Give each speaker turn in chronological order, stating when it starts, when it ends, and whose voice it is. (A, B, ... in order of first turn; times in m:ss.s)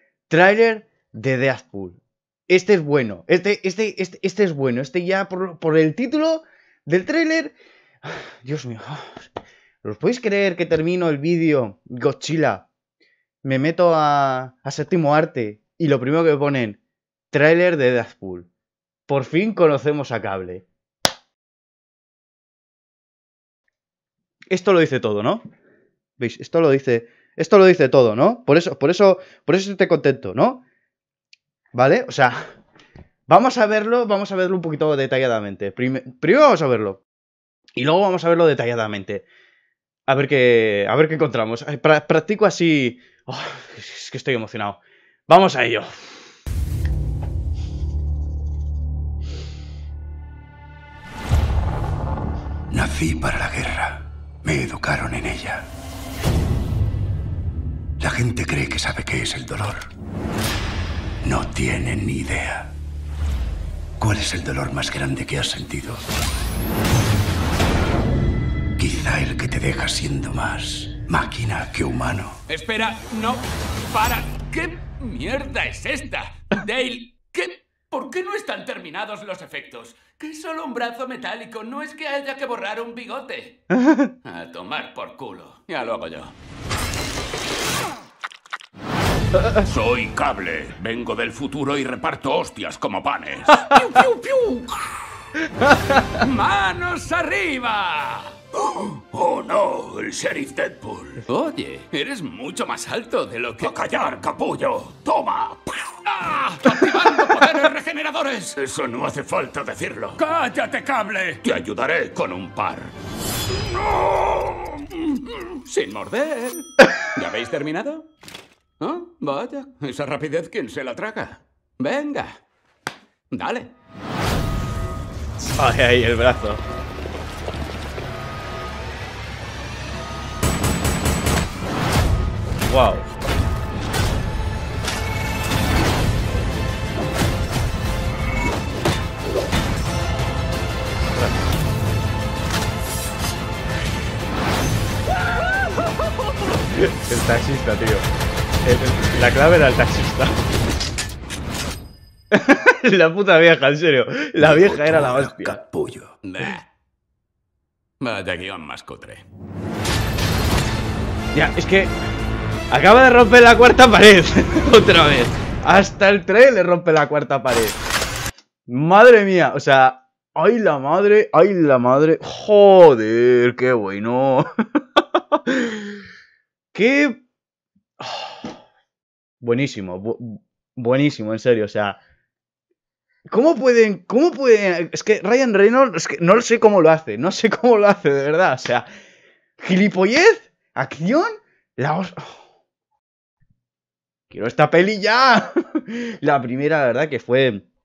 0:00.3-0:09.3 A
0:09.8-0:12.7 A
0:13.4-0:16.8 A
0:17.3-0:18.5 A
0:19.1-0:20.6 A
0:24.5-0:25.4 A
0:26.2-0:30.6 A
0:31.7-0:32.4 A
0:33.3-0:37.0 A
0:37.8-0:39.2 A
0:40.1-0:46.2 A
0:52.7-0:55.7 B
0:58.0-0:59.9 B
1:01.2-1:02.7 B
1:04.0-1:06.0 B
1:08.8-1:12.4 B
1:12.5-1:23.6 C
1:23.7-1:24.1 A
1:24.2-1:26.3 C
1:29.6-1:35.2 C
1:35.6-1:36.2 A
1:36.0-1:52.9 C
1:53.5-1:58.1 C
1:58.8-2:02.4 C
2:03.3-2:03.7 C
2:05.6-2:06.6 A
2:12.6-2:13.0 A
2:21.2-2:21.4 A
2:26.7-2:28.1 A
2:28.6-2:30.4 A
2:32.3-2:35.6 A
2:34.4-2:36.2 B
2:36.2-2:36.6 C
2:38.0-2:39.2 C
2:41.3-2:41.9 A
2:42.7-2:47.8 A
2:48.7-2:55.9 A
2:56.7-2:57.2 A
2:58.0-2:58.6 A
2:59.4-3:02.0 A
3:03.3-3:08.8 A
3:09.6-3:12.4 A
3:14.3-3:17.6 A